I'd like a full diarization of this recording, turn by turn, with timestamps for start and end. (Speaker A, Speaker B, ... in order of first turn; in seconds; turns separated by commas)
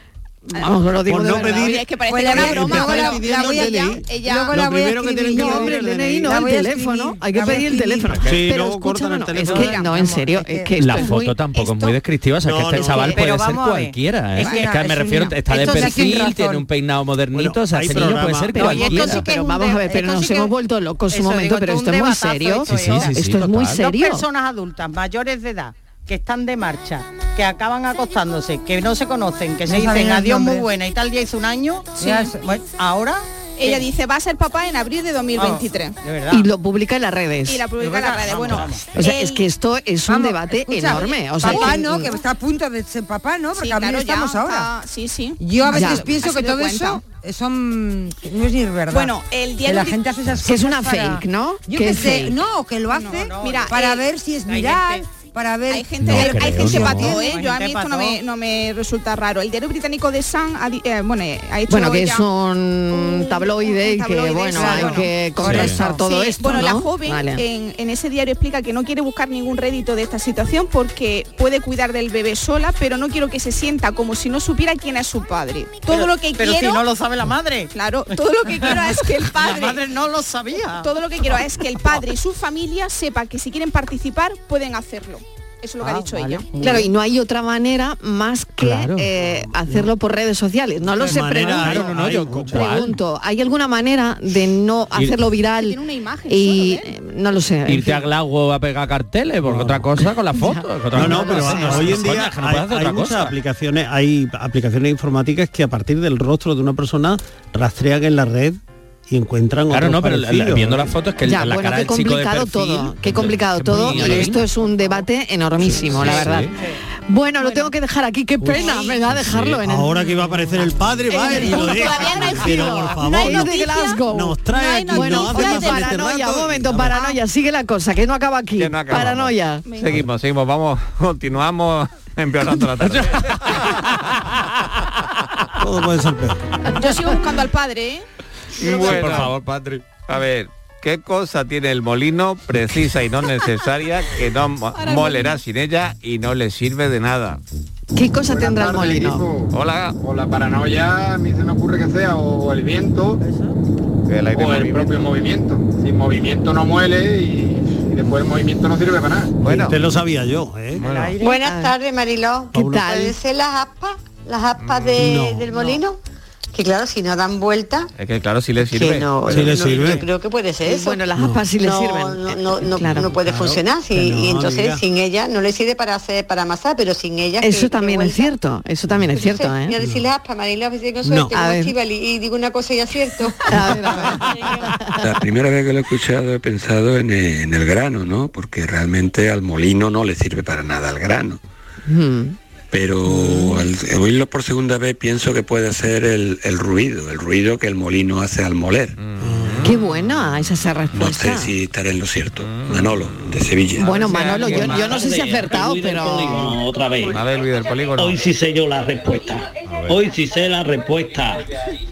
Speaker A: 0.5-1.8, Speaker B: 1.1-6.4, Speaker C: 1.2-4.7, Speaker D: 2.1-8.3, Speaker A: 5.3-11.3, Speaker B: 8.2-9.8, Speaker C: 9.5-9.9, Speaker D: 9.6-10.7, Speaker E: 10.8-19.3, Speaker C: 11.0-11.9, Speaker B: 12.4-13.1, Speaker A: 12.8-13.2, Speaker F: 12.9-14.8, Speaker C: 14.4-15.4, Speaker D: 14.4-16.6, Speaker B: 17.3-19.0, Speaker A: 18.5-24.2, Speaker D: 18.7-20.5, Speaker F: 21.1-23.1, Speaker E: 22.6-23.8, Speaker F: 23.7-33.9, Speaker D: 29.7-30.7, Speaker C: 32.0-32.3, Speaker D: 32.0-32.5, Speaker C: 33.6-36.0, Speaker F: 35.3-36.5, Speaker A: 36.3-37.6, Speaker C: 37.5-39.5, Speaker F: 37.8-38.9, Speaker A: 39.0-42.1, Speaker D: 40.1-44.7, Speaker C: 41.0-42.2, Speaker C: 43.6-47.0, Speaker D: 45.4-57.2, Speaker A: 45.7-46.0, Speaker C: 48.9-50.1, Speaker A: 50.4-52.4, Speaker C: 52.9-54.0, Speaker F: 53.1-55.0, Speaker C: 55.7-62.2, Speaker E: 56.0-57.2, Speaker F: 56.9-58.2, Speaker A: 61.7-67.4, Speaker C: 62.9-65.1, Speaker D: 64.5-66.0, Speaker F: 64.7-65.1, Speaker E: 65.4-65.8, Speaker C: 65.8-76.9, Speaker F: 75.9-77.7, Speaker C: 77.7-79.9, Speaker F: 78.5-81.4, Speaker C: 80.8-86.5, Speaker F: 85.8-86.9, Speaker A: 86.6-95.8, Speaker E: 88.6-89.1, Speaker B: 89.1-89.9, Speaker B: 91.0-92.7, Speaker E: 91.3-93.0, Speaker C: 95.5-96.9, Speaker A: 96.3-98.0, Speaker E: 97.7-103.3, Speaker B: 99.5-99.9, Speaker A: 100.4-102.1, Speaker B: 100.9-110.9, Speaker E: 109.7-114.4, Speaker A: 111.3-116.5, Speaker E: 115.7-116.5, Speaker A: 117.1-129.7, Speaker C: 117.4-117.7, Speaker B: 118.4-118.8, Speaker E: 119.1-119.6, Speaker B: 119.6-127.0, Speaker C: 121.1-126.1, Speaker C: 126.9-127.2, Speaker G: 128.6-134.0, Speaker C: 129.7-130.0, Speaker E: 132.8-133.8, Speaker B: 135.6-136.4, Speaker C: 136.7-138.1, Speaker G: 138.6-147.4, Speaker C: 138.6-139.3, Speaker E: 138.6-139.8, Speaker C: 144.7-145.4, Speaker A: 147.9-149.3, Speaker H: 148.3-153.2, Speaker G: 149.5-150.0, Speaker F: 153.2-153.6, Speaker G: 154.1-155.2, Speaker H: 154.3-159.3, Speaker G: 159.4-159.8, Speaker B: 159.4-160.9, Speaker G: 160.7-161.1, Speaker F: 160.8-161.4, Speaker I: 161.2-166.0, Speaker A: 161.3-161.7, Speaker B: 162.5-162.9, Speaker A: 162.5-163.2, Speaker G: 164.6-165.0, Speaker B: 165.0-165.5, Speaker I: 166.5-167.9, Speaker G: 168.0-169.8, Speaker I: 168.7-171.0, Speaker B: 169.3-170.1, Speaker A: 170.6-173.1, Speaker B: 171.2-171.5, Speaker I: 171.6-178.4, Speaker B: 172.8-174.8, Speaker A: 177.4-179.8, Speaker I: 179.1-184.2, Speaker B: 181.0-181.3, Speaker A: 181.3-181.7, Speaker A: 183.5-185.0, Speaker J: 185.0-191.4, Speaker A: 191.9-192.4, Speaker J: 192.7-199.0, Speaker G: 199.0-199.7, Speaker B: 199.2-199.7, Speaker A: 199.6-201.5, Speaker J: 200.9-203.9, Speaker G: 202.4-202.9, Speaker A: 203.8-206.6, Speaker G: 203.8-205.1, Speaker K: 203.8-207.2, Speaker G: 207.1-208.2, Speaker K: 208.0-211.4, Speaker E: 209.7-210.0